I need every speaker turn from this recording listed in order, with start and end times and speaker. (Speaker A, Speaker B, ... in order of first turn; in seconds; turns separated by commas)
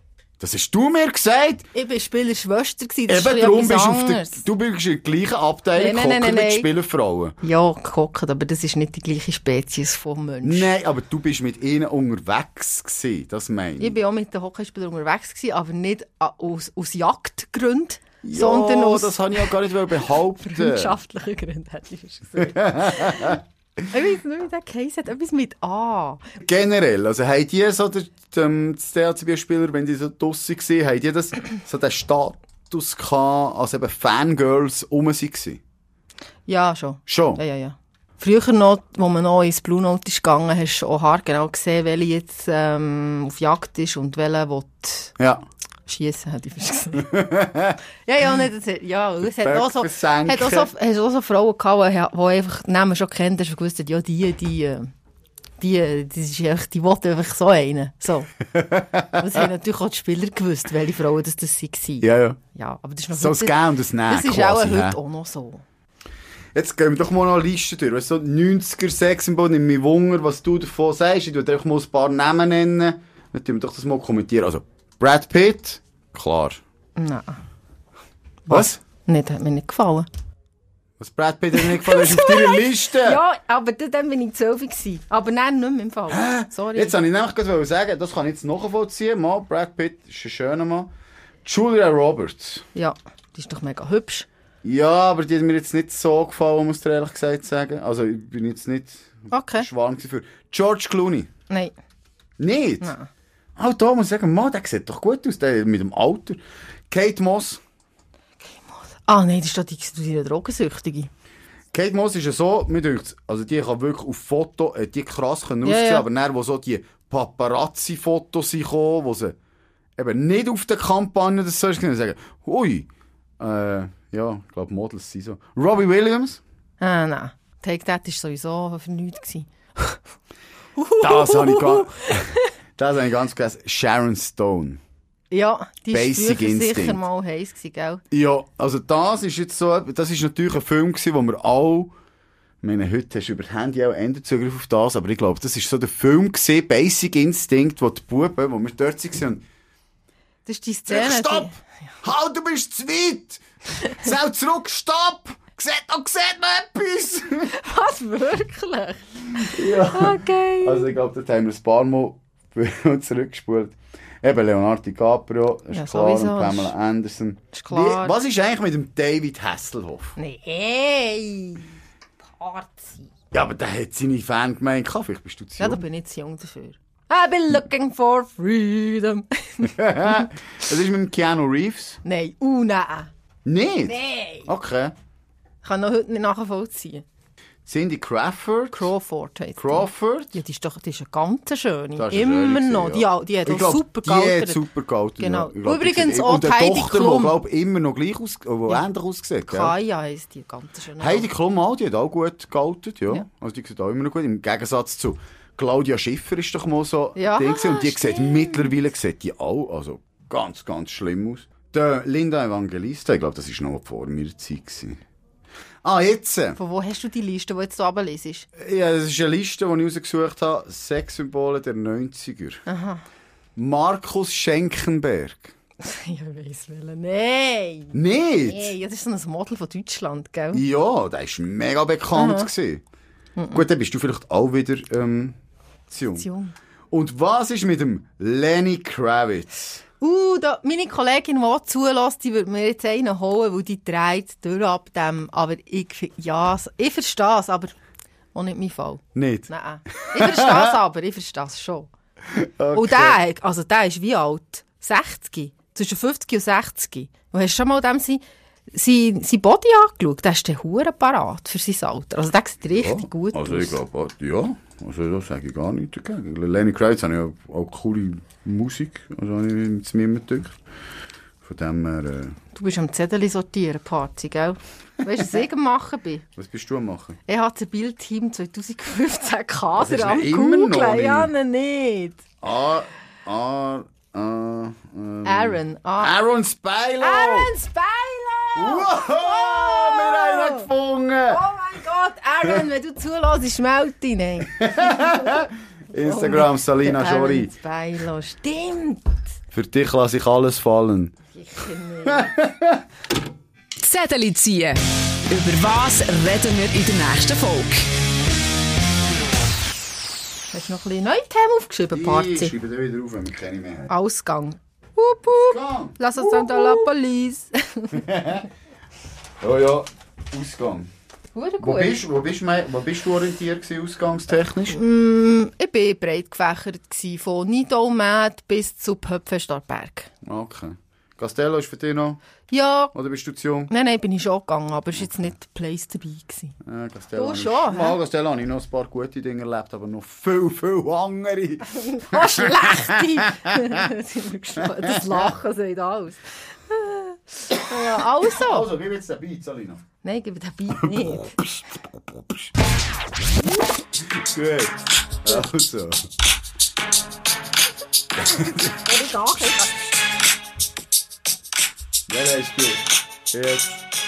Speaker A: 0.4-1.7, Speaker B: 1.7-4.4, Speaker A: 3.1-7.3, Speaker B: 5.7-6.7, Speaker B: 7.4-10.7, Speaker A: 10.4-14.0, Speaker B: 13.8-19.5, Speaker A: 18.2-20.9, Speaker B: 20.4-23.4, Speaker A: 22.4-23.4, Speaker B: 23.9-26.2, Speaker A: 26.4-35.6, Speaker B: 36.5-45.1, Speaker A: 37.1-37.4, Speaker A: 45.2-45.4, Speaker B: 45.9-47.2, Speaker A: 47.0-47.8, Speaker B: 48.0-54.9, Speaker A: 49.3-50.7, Speaker B: 55.6-58.3, Speaker A: 58.5-59.4, Speaker B: 59.2-65.6, Speaker A: 62.0-62.4, Speaker A: 63.1-65.0, Speaker A: 66.5-76.6, Speaker B: 77.0-77.4, Speaker B: 78.5-80.1, Speaker A: 78.5-78.8, Speaker A: 81.0-83.2, Speaker B: 81.5-86.9, Speaker A: 86.1-90.9, Speaker A: 91.4-92.7, Speaker B: 92.7-94.3, Speaker A: 94.6-101.3, Speaker B: 99.3-99.7, Speaker B: 101.5-101.7, Speaker A: 102.4-102.9, Speaker B: 102.8-103.1, Speaker A: 103.6-106.4, Speaker A: 106.9-107.6, Speaker B: 108.4-111.1, Speaker A: 111.7-119.3, Speaker B: 115.6-116.0, Speaker A: 120.0-122.9, Speaker A: 123.4-126.4, Speaker B: 126.8-130.0, Speaker B: 130.8-132.5, Speaker A: 131.0-134.8, Speaker B: 135.3-138.0, Speaker A: 135.9-137.0, Speaker A: 138.1-141.9, Speaker A: 142.6-149.4, Speaker B: 150.4-151.6, Speaker A: 150.9-157.5, Speaker B: 157.5-160.9, Speaker A: 159.3-170.2, Speaker B: 165.7-166.7, Speaker B: 167.5-168.1, Speaker B: 170.2-173.1, Speaker A: 173.3-175.8, Speaker B: 175.6-180.3, Speaker A: 179.6-182.0, Speaker B: 182.0-183.1, Speaker A: 183.4-184.9, Speaker B: 183.8-184.5, Speaker B: 185.6-187.0, Speaker A: 187.7-188.9, Speaker B: 188.7-194.6, Speaker A: 189.6-190.4, Speaker A: 191.9-199.7, Speaker B: 195.2-197.4, Speaker B: 199.5-201.3, Speaker A: 201.0-215.0, Speaker B: 207.2-208.7, Speaker A: 215.8-216.6, Speaker B: 216.6-218.5, Speaker A: 218.6-222.7, Speaker B: 222.7-223.0, Speaker A: 223.6-225.5, Speaker B: 225.8-230.6, Speaker A: 227.9-228.7, Speaker A: 230.5-232.8, Speaker B: 232.1-232.5, Speaker B: 233.4-233.6, Speaker A: 233.5-235.3, Speaker A: 235.9-236.3, Speaker B: 236.2-236.5, Speaker A: 236.9-239.8, Speaker B: 240.0-247.8, Speaker B: 248.3-251.9, Speaker A: 249.1-250.7, Speaker A: 252.3-253.2, Speaker B: 252.7-263.8, Speaker A: 262.7-270.6, Speaker A: 271.4-272.4, Speaker B: 272.5-276.2, Speaker A: 276.4-277.2, Speaker B: 277.3-282.2, Speaker A: 279.8-281.3, Speaker A: 282.4-287.5, Speaker B: 285.2-286.1, Speaker B: 287.0-290.7, Speaker A: 288.6-291.4, Speaker B: 291.3-299.2, Speaker A: 294.4-297.5, Speaker A: 299.5-301.1, Speaker B: 301.3-302.3, Speaker A: 302.1-302.8, Speaker C: 303.8-307.9, Speaker B: 310.5-312.5, Speaker A: 311.9-313.9, Speaker B: 313.9-318.1, Speaker A: 315.3-316.9, Speaker A: 317.9-318.5, Speaker A: 319.4-320.9, Speaker B: 321.3-322.0, Speaker A: 321.6-324.8, Speaker B: 324.7-330.1, Speaker A: 330.2-332.2, Speaker B: 332.5-332.9, Speaker A: 332.9-333.7, Speaker B: 333.7-336.6, Speaker A: 336.6-343.8, Speaker B: 337.1-338.0, Speaker B: 341.7-348.7, Speaker A: 344.7-345.3, Speaker A: 347.7-349.8, Speaker B: 350.0-351.4, Speaker A: 350.8-351.8, Speaker A: 354.0-356.1, Speaker A: 358.2-358.8, Speaker B: 358.8-359.9, Speaker A: 362.1-363.8